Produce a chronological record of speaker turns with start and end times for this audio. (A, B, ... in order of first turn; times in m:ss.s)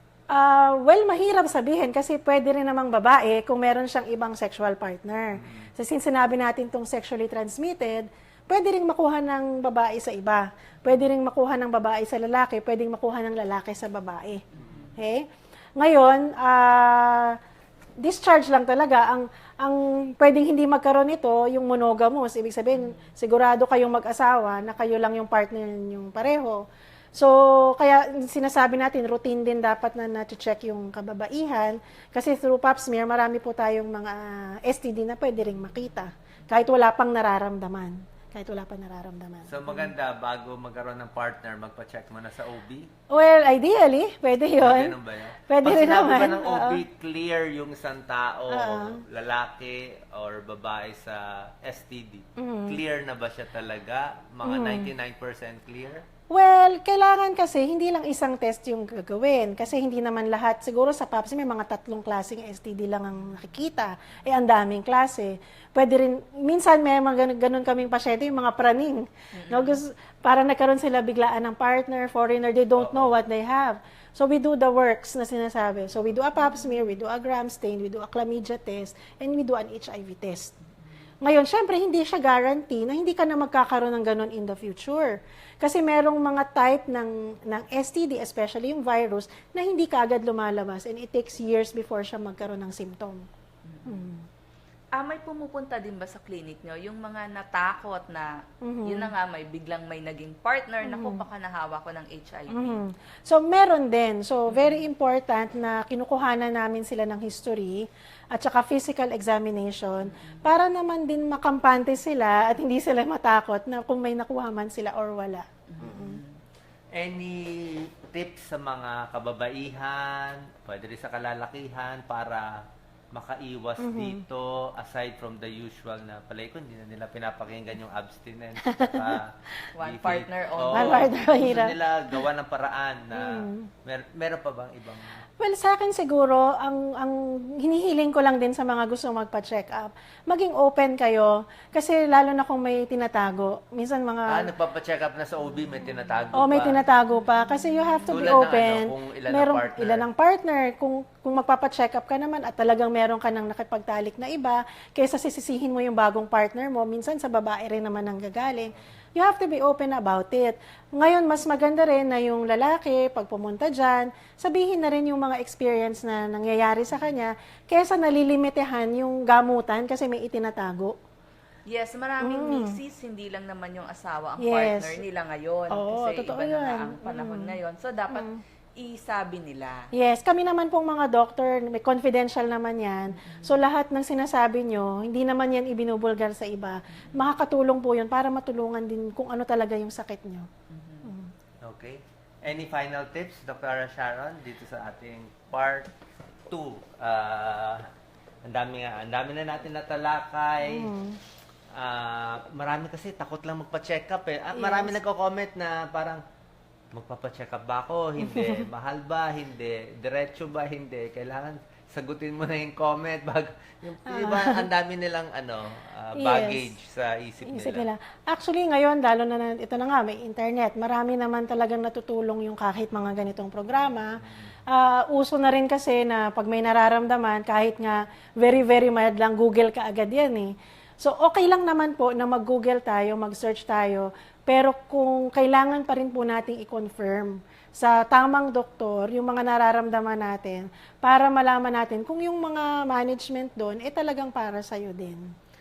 0:00.3-0:14.4 A
0:05.4-0:05.7 B
0:14.5-0:14.9 C
0:15.0-0:17.4 A
0:18.0-0:26.6 A
0:22.8-0:23.0 C
0:27.2-0:39.9 A
0:39.5-0:42.9 B
0:43.1-0:45.0 A
0:44.6-0:56.0 B
0:45.5-0:46.8 A
0:48.5-0:49.0 A
0:52.4-0:52.8 A
0:54.4-0:54.9 A
0:56.3-1:20.5 A
1:09.4-1:09.8 C
1:12.8-1:13.1 B
1:21.2-1:33.3 A
1:33.6-1:34.1 C
1:33.9-1:34.2 A
1:35.0-1:38.3 C
1:38.6-1:39.1 A
1:38.8-1:42.8 C
1:40.8-1:41.2 A
1:42.5-1:56.2 A
1:44.5-1:44.8 C
1:50.0-1:50.4 C
1:55.7-1:56.4 C
1:56.9-2:02.6 B
2:03.1-2:15.2 B
2:03.8-2:04.2 A
2:08.6-2:09.2 A
2:09.8-2:11.3 C
2:10.7-2:11.8 A
2:13.2-2:13.7 A
2:15.4-2:24.5 A
2:24.3-2:26.8 B
2:26.3-2:51.0 A
2:27.5-2:28.0 C
2:28.1-2:30.1 B
2:51.7-2:59.9 C
2:52.2-2:52.8 A
2:54.4-2:55.0 A
2:55.7-2:57.5 A
2:58.1-2:58.4 A
2:59.9-3:10.5 A
3:03.2-3:03.6 C
3:10.7-3:11.1 C
3:11.0-3:11.3 A
3:11.6-3:15.9 B
3:16.5-3:17.9 B
3:18.4-3:20.9 B
3:20.6-3:21.2 A
3:21.7-3:26.2 B
3:24.6-3:25.0 A
3:26.9-3:37.9 B
3:28.2-3:28.7 A
3:34.1-3:34.7 A
3:36.2-3:36.7 A
3:37.5-4:05.3 A